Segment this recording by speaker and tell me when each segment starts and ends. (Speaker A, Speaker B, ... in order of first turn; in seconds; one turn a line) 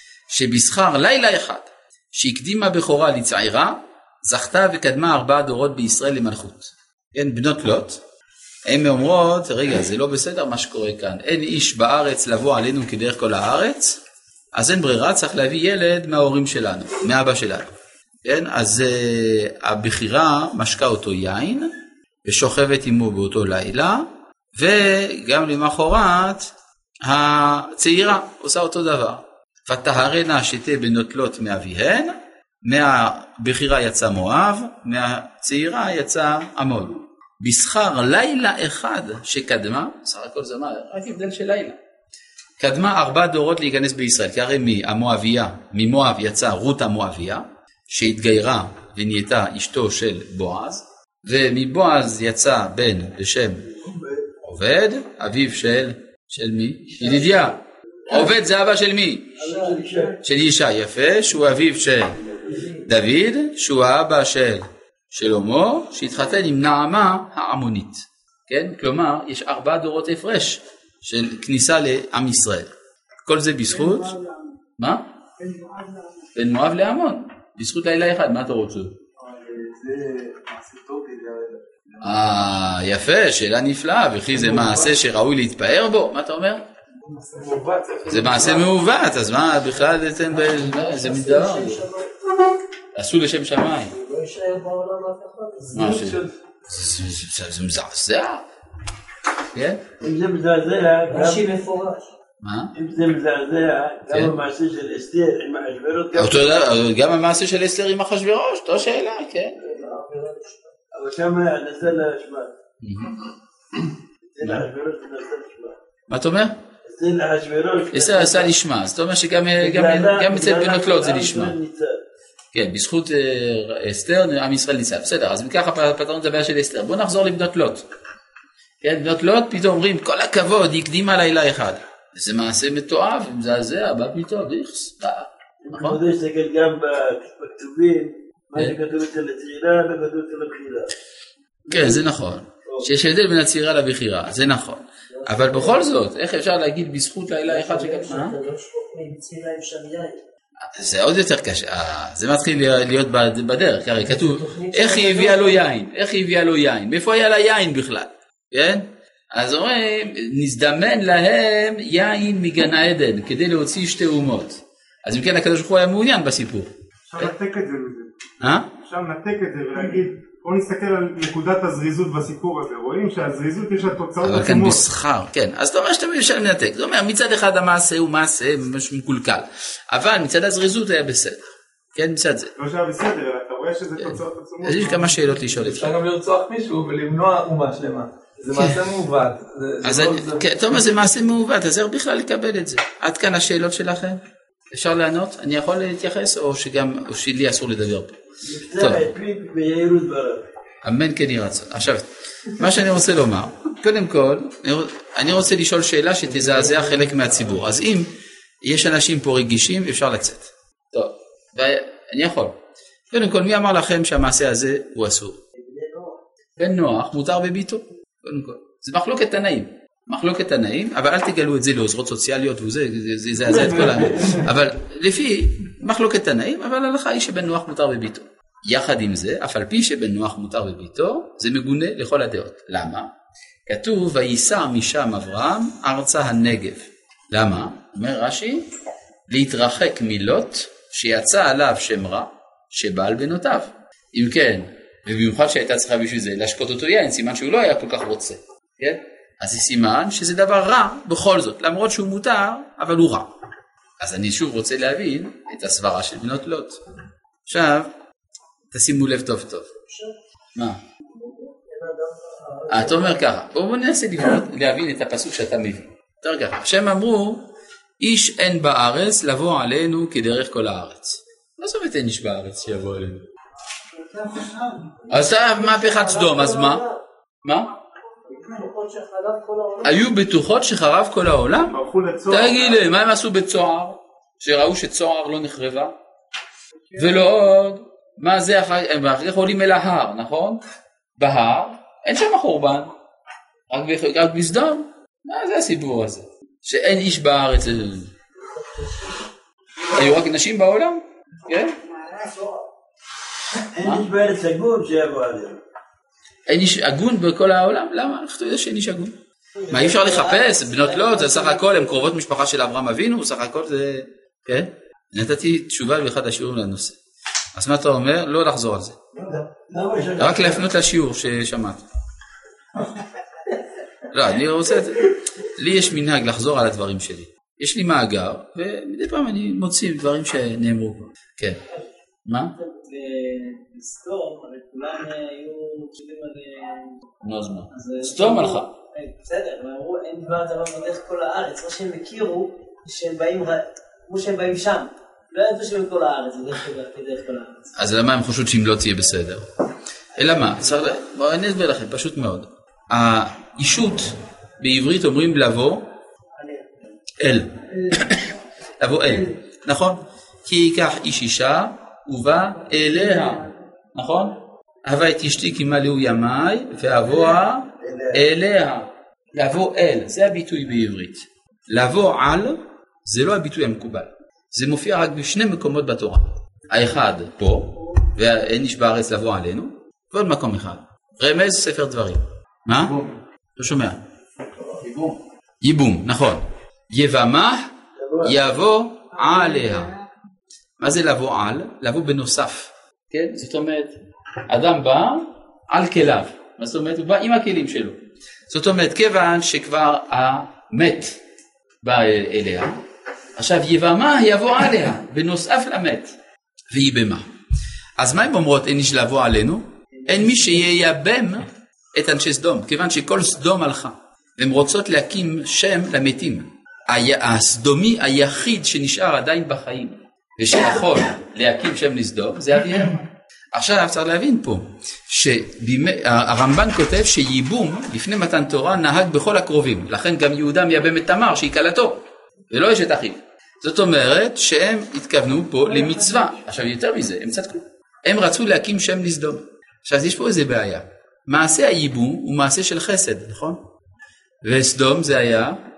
Speaker A: 0.3-8.0
Speaker A: 8.7-14.0
Speaker A: 14.5-17.7
Speaker A: 18.2-21.7
Speaker A: 22.2-41.8
Speaker A: 42.6-53.7
Speaker B: 53.8-54.2
Speaker A: 54.4-59.4
Speaker B: 59.4-60.2
Speaker C: 59.4-60.1
Speaker A: 60.2-62.2
Speaker C: 62.5-62.8
Speaker A: 62.8-72.7
Speaker A: 73.2-74.2
Speaker A: 74.8-75.0
Speaker A: 76.3-79.0
Speaker D: 79.2-82.5
Speaker A: 82.0-86.6
Speaker D: 84.3-85.0
Speaker D: 87.0-88.8
Speaker A: 88.0-91.8
Speaker C: 90.3-92.1
Speaker A: 93.0-93.9
Speaker C: 94.0-96.0
Speaker A: 95.7-98.5
Speaker D: 95.8-96.2
Speaker A: 99.5-99.8
Speaker B: 100.0-101.5
Speaker C: 101.1-102.1
Speaker A: 102.4-102.7
Speaker B: 102.7-106.7
Speaker A: 104.1-104.3
Speaker A: 106.1-109.6
Speaker C: 109.6-110.7
Speaker B: 109.7-110.0
Speaker B: 110.9-112.5
Speaker A: 112.8-113.2
Speaker B: 114.3-115.8
Speaker A: 116.1-116.6
Speaker B: 116.8-118.5
Speaker A: 117.9-121.5
Speaker B: 119.6-122.0
Speaker A: 122.5-127.9
Speaker A: 128.8-136.0
Speaker B: 135.6-140.9
Speaker A: 141.7-148.4
Speaker B: 141.7-142.0
Speaker C: 145.1-145.9
Speaker C: 147.5-150.2
Speaker A: 150.8-167.3
Speaker C: 154.0-155.6
Speaker E: 167.1-174.8
Speaker A: 168.4-168.7
Speaker A: 174.2-182.5
Speaker E: 182.6-185.4
Speaker A: 184.0-186.0
Speaker D: 185.5-191.1
Speaker A: 188.5-188.8
Speaker A: 189.8-198.1
Speaker B: 198.4-200.4
Speaker A: 198.8-199.1
Speaker A: 200.8-208.1
Speaker C: 206.5-207.4
Speaker A: 208.6-212.5
Speaker A: 213.1-215.4
Speaker C: 215.6-216.2
Speaker A: 216.6-233.1
Speaker B: 223.4-224.4
Speaker A: 233.7-238.7
Speaker A: 239.3-253.3
Speaker A: 254.0-256.8
Speaker A: 257.5-257.9
Speaker A: 258.7-259.7
Speaker A: 260.5-260.8
Speaker C: 261.1-263.3
Speaker A: 262.7-267.4
Speaker A: 268.0-273.2
Speaker C: 274.0-277.0
Speaker A: 275.1-276.9
Speaker A: 277.4-277.7
Speaker C: 278.3-280.0
Speaker A: 279.8-281.8
Speaker E: 281.7-282.9
Speaker A: 282.3-286.0
Speaker A: 287.0-290.6
Speaker A: 291.2-292.9
Speaker A: 293.7-298.1
Speaker C: 298.5-299.2
Speaker A: 299.9-301.8
Speaker C: 302.0-302.6
Speaker B: 303.7-305.6
Speaker A: 306.5-309.1
Speaker C: 309.6-312.0
Speaker A: 309.7-317.0
Speaker A: 317.5-319.0
Speaker C: 319.2-319.4
Speaker B: 319.2-320.7
Speaker A: 320.2-321.8
Speaker A: 324.1-331.6
Speaker A: 332.2-332.5
Speaker C: 332.6-337.0
Speaker A: 337.2-338.7
Speaker C: 337.7-347.7
Speaker A: 347.8-349.5
Speaker A: 350.2-355.9
Speaker C: 356.4-356.7
Speaker A: 357.2-383.0
Speaker A: 383.6-384.0
Speaker A: 384.8-390.0
Speaker B: 388.0-388.4
Speaker A: 390.8-393.9
Speaker A: 394.5-401.2
Speaker A: 401.8-402.8
Speaker A: 403.4-406.1
Speaker A: 406.7-407.3
Speaker A: 408.0-423.0
Speaker A: 423.5-443.6
Speaker A: 444.4-445.6